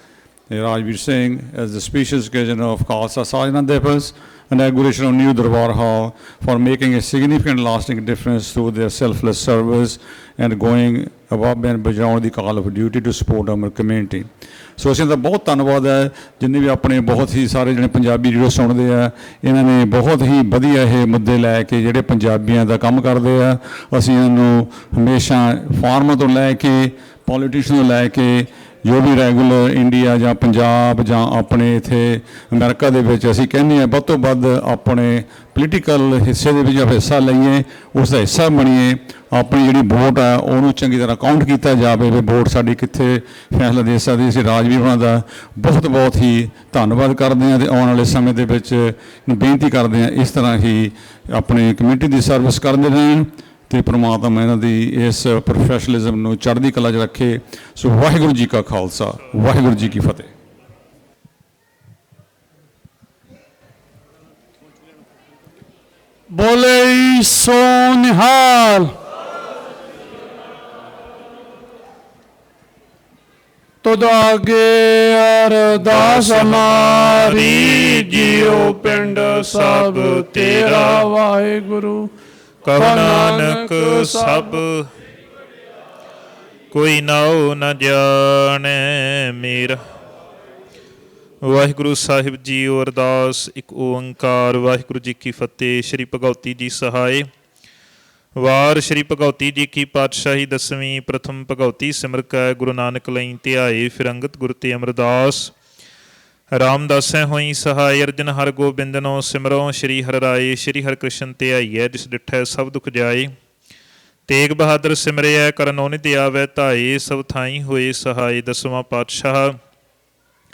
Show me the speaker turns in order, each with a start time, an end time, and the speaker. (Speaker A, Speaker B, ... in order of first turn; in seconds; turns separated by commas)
Speaker A: 0.5-60.3, Speaker B: 66.3-68.8, Speaker B: 73.8-77.7, Speaker C: 75.8-81.1, Speaker B: 79.0-82.0, Speaker C: 82.6-84.9, Speaker B: 82.8-84.5, Speaker C: 86.7-89.8, Speaker C: 91.4-97.2, Speaker C: 98.4-105.5, Speaker C: 106.6-113.3, Speaker C: 114.3-119.5